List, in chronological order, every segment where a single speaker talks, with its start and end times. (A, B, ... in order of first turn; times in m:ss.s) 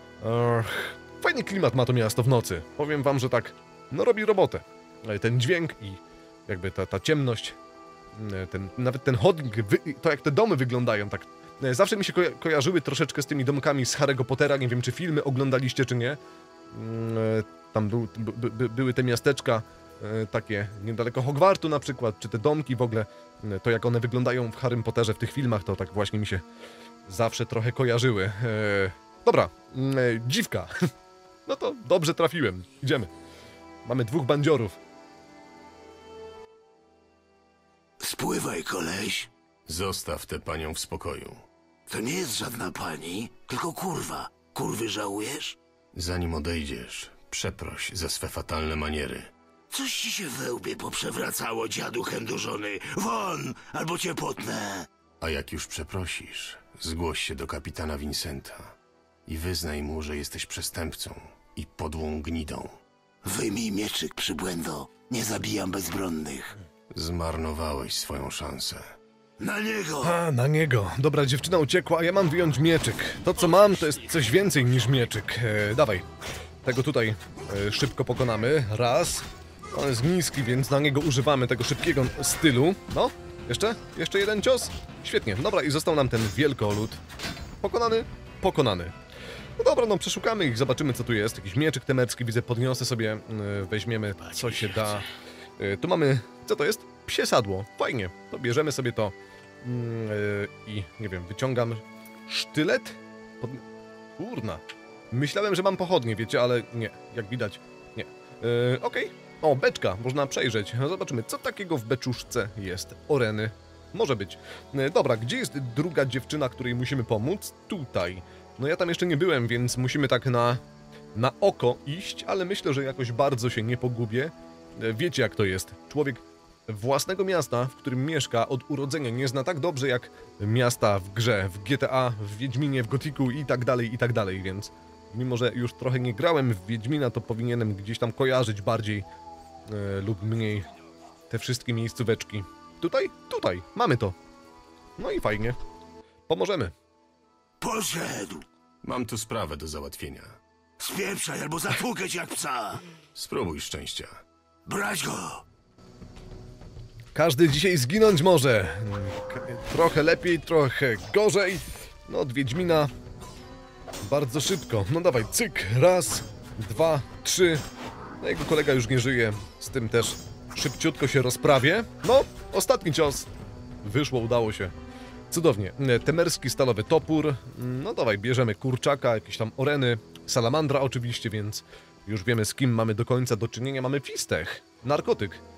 0:00.2-0:07.6 A
0:08.2-0:16.2 A
0:16.7-0:26.4 A
0:27.1-0:30.8 A
0:31.4-0:33.1 A
0:33.8-0:34.8 A
0:38.0-0:39.3 B
0:39.7-0:41.4 C
0:41.9-0:45.6 B
0:45.9-0:49.3 C
0:49.7-0:54.8 B
0:55.2-0:58.7 C
0:59.2-1:02.8 C
1:03.2-1:06.5 B
1:06.9-1:08.8 C
1:09.4-1:10.2 B
1:10.0-1:16.0 A
1:13.5-1:14.0 B
1:16.6-1:27.0 A
1:27.6-1:28.9 A
1:29.6-1:35.0 A
1:34.3-1:34.5 B
1:35.6-1:43.6 A
1:44.2-2:00.6 A
2:01.1-2:19.0 A
2:19.7-2:20.7 A
2:21.3-2:24.2 A
2:25.0-2:25.6 A
2:26.3-2:26.7 A
2:27.6-2:28.4 B
2:28.8-2:30.4 C
2:30.8-2:32.8 B
2:33.1-2:34.1 C
2:34.7-2:35.4 B
2:37.1-2:42.9 A
2:44.0-2:47.6 A
2:48.2-2:53.3 A
2:53.8-2:54.7 A
2:55.3-3:05.4 A